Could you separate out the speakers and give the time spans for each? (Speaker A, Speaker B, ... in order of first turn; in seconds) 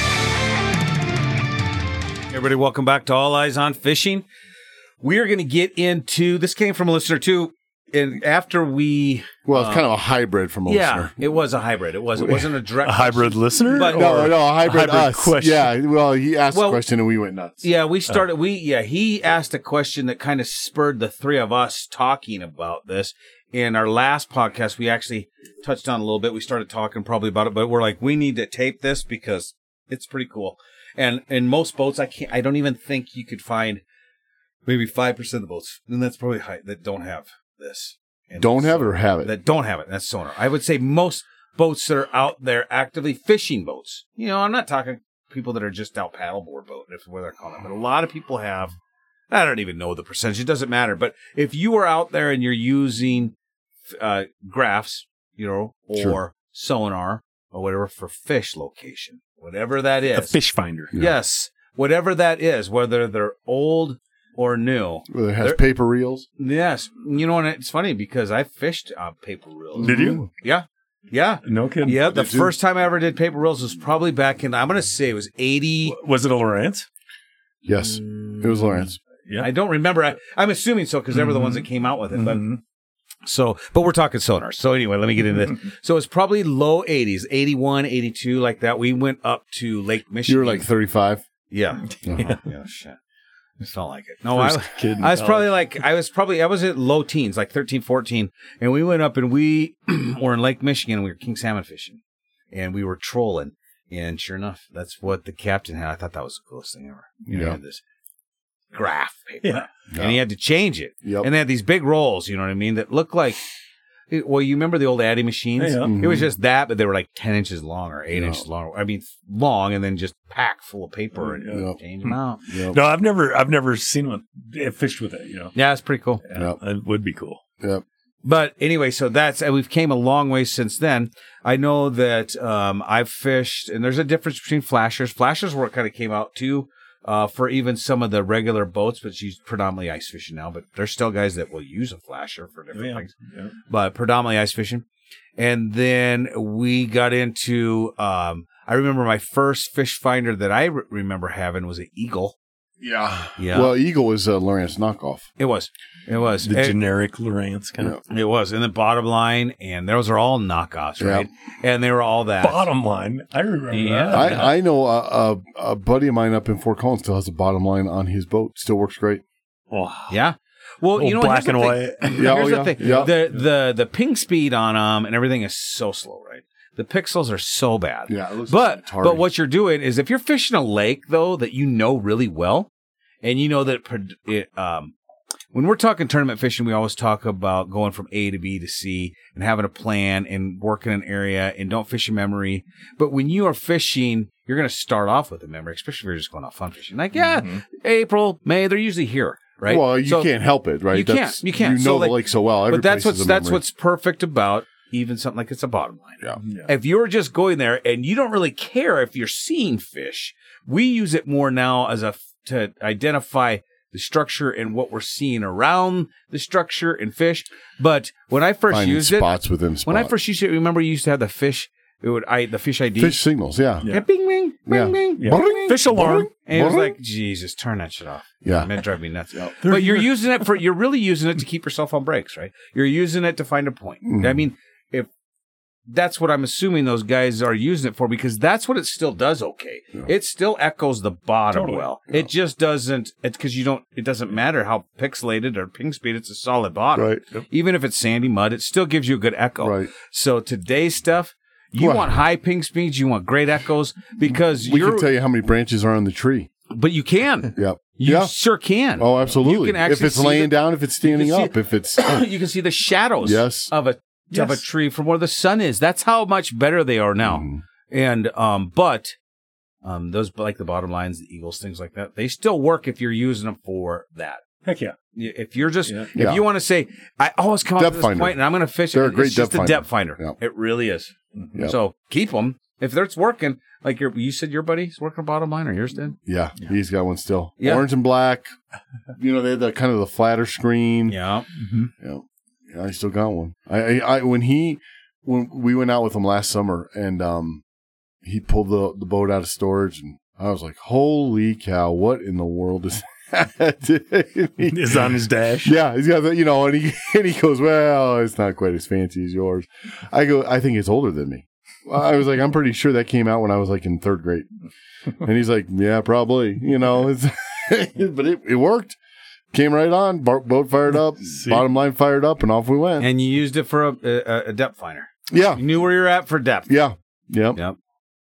Speaker A: 2.3-4.2, 5.0-9.8, 10.7-14.2, 16.5-16.8, 17.6-33.8, 34.6-48.7, 49.3-53.3, 53.9-60.4, 60.9-65.6, 66.4-76.0, 77.7-82.5, 83.2-90.7, 91.5-93.0, 93.6-102.0, 102.5-107.8, 108.7-113.4, 114.1-122.5, 125.5-126.2, 128.2-143.1, 143.7-144.8, 145.4-152.3, 153.4-153.7, 155.4-156.8, 158.1-162.7, 163.7-164.6, 170.1-182.7, 183.2-184.9, 185.5-200.3, 200.9-219.3, 219.8-223.2, 223.8-225.8, 226.4-235.1, 235.9-255.1, 256.7-269.1, 269.8-274.4, 275.1-286.2, 287.6-287.9, 291.1-291.5, 323.0-326.7
Speaker B: 9.4-11.1, 12.2-12.5, 13.9-17.6, 38.4-39.3, 65.1-66.2, 69.7-70.3, 72.0-72.5, 77.7-79.0, 90.2-91.2, 92.0-92.4, 107.3-107.6, 109.9-110.2, 111.0-111.3, 115.8-116.3, 118.1-118.4, 121.4-121.8, 122.5-122.8, 152.8-155.2, 161.0-161.3, 164.1-169.2, 172.2-173.1, 178.1-179.2, 199.7-203.6, 218.7-220.1, 223.0-223.9, 224.7-226.9, 228.4-228.7, 234.0-234.4, 246.9-247.2, 249.6-249.9, 251.8-252.2, 254.6-256.5, 257.5-258.3, 259.0-262.2, 263.2-263.7, 267.2-267.6, 276.1-276.4, 277.8-278.4, 278.9-280.3, 286.2-288.5, 289.2-291.1, 292.0-297.6, 298.2-314.5, 315.2-319.0, 319.5-323.1, 325.3-325.6, 326.7-327.6
Speaker C: 12.8-15.7, 60.1-60.9, 69.8-70.2, 71.4-72.1, 75.8-76.9, 81.1-82.6, 92.1-92.4, 94.3-95.5, 109.4-109.7, 115.6-115.9, 121.2-125.5, 126.3-127.4, 142.7-143.5, 156.4-158.0, 162.4-164.5, 169.7-170.2, 171.0-173.4, 197.2-197.5, 223.8-224.1, 225.2-226.3, 229.6-230.5, 241.5-241.9, 264.3-264.6, 274.6-274.9, 304.7-305.8, 321.2-321.7